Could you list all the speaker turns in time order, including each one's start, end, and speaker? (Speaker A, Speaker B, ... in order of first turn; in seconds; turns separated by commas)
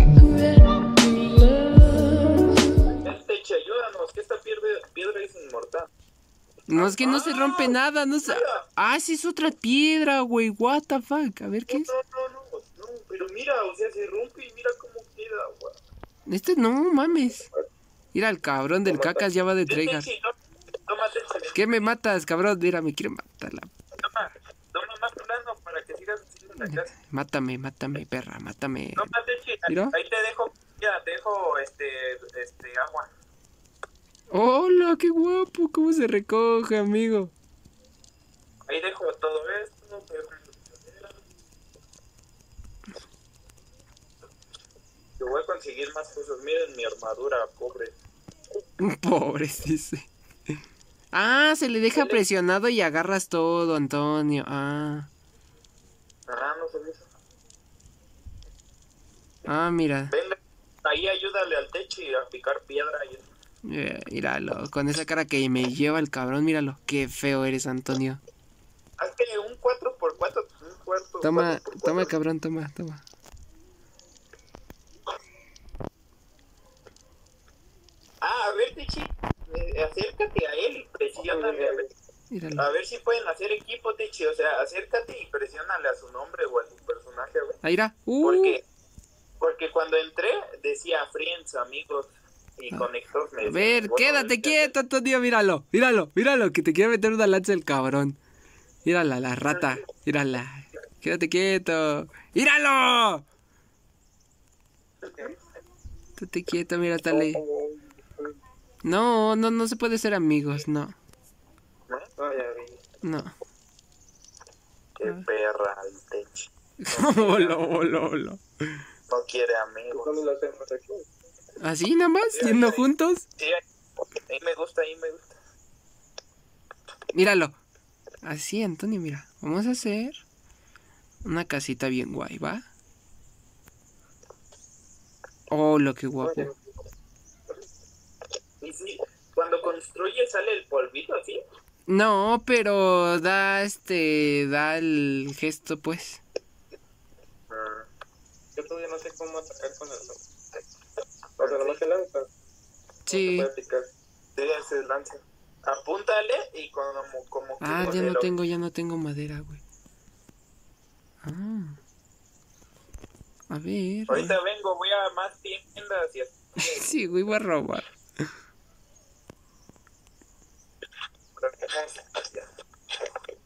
Speaker A: 1.2-2.5, Speaker B: 3.0-5.9, Speaker A: 6.7-11.9, Speaker B: 6.7-7.8, Speaker B: 8.3-8.6, Speaker B: 11.7-15.8, Speaker A: 16.3-17.5, Speaker A: 18.1-20.1, Speaker C: 18.8-19.2, Speaker B: 19.7-20.3, Speaker B: 20.9-21.8, Speaker A: 21.5-23.7, Speaker B: 24.0-26.9, Speaker A: 26.6-29.1, Speaker B: 29.0-33.1, Speaker A: 29.7-29.9, Speaker A: 34.3-37.3, Speaker B: 38.6-41.2, Speaker B: 45.2-47.9, Speaker A: 48.8-50.1, Speaker A: 51.1-55.1, Speaker B: 51.9-52.2, Speaker B: 56.3-57.0, Speaker A: 59.5-60.1, Speaker B: 60.1-63.2, Speaker A: 63.6-68.2, Speaker B: 69.0-72.1, Speaker A: 71.2-73.0, Speaker B: 78.2-81.9, Speaker C: 81.3-81.9, Speaker A: 82.3-82.7, Speaker B: 82.5-87.6, Speaker A: 87.6-88.6, Speaker B: 88.2-88.6, Speaker B: 89.4-94.7, Speaker A: 93.4-98.2, Speaker A: 98.8-103.2, Speaker A: 106.2-107.4, Speaker C: 107.0-108.3, Speaker A: 108.8-111.0, Speaker C: 112.2-112.8, Speaker A: 113.0-113.3, Speaker B: 115.0-117.6, Speaker A: 116.8-118.4, Speaker B: 119.1-120.2, Speaker C: 119.9-121.0, Speaker A: 121.6-123.2, Speaker B: 122.3-123.6, Speaker B: 124.3-125.3, Speaker A: 127.1-127.6, Speaker A: 128.2-130.2, Speaker A: 131.2-132.6, Speaker A: 135.5-136.5, Speaker B: 138.6-141.4, Speaker A: 141.9-146.2, Speaker B: 147.5-147.9, Speaker C: 148.6-150.2, Speaker C: 151.4-152.3, Speaker B: 151.4-151.8, Speaker A: 153.1-153.5, Speaker C: 153.1-153.9, Speaker B: 154.3-158.3, Speaker A: 157.6-159.6, Speaker A: 161.2-161.8, Speaker A: 163.5-164.4, Speaker B: 164.1-166.9, Speaker A: 166.6-167.9, Speaker B: 171.4-172.4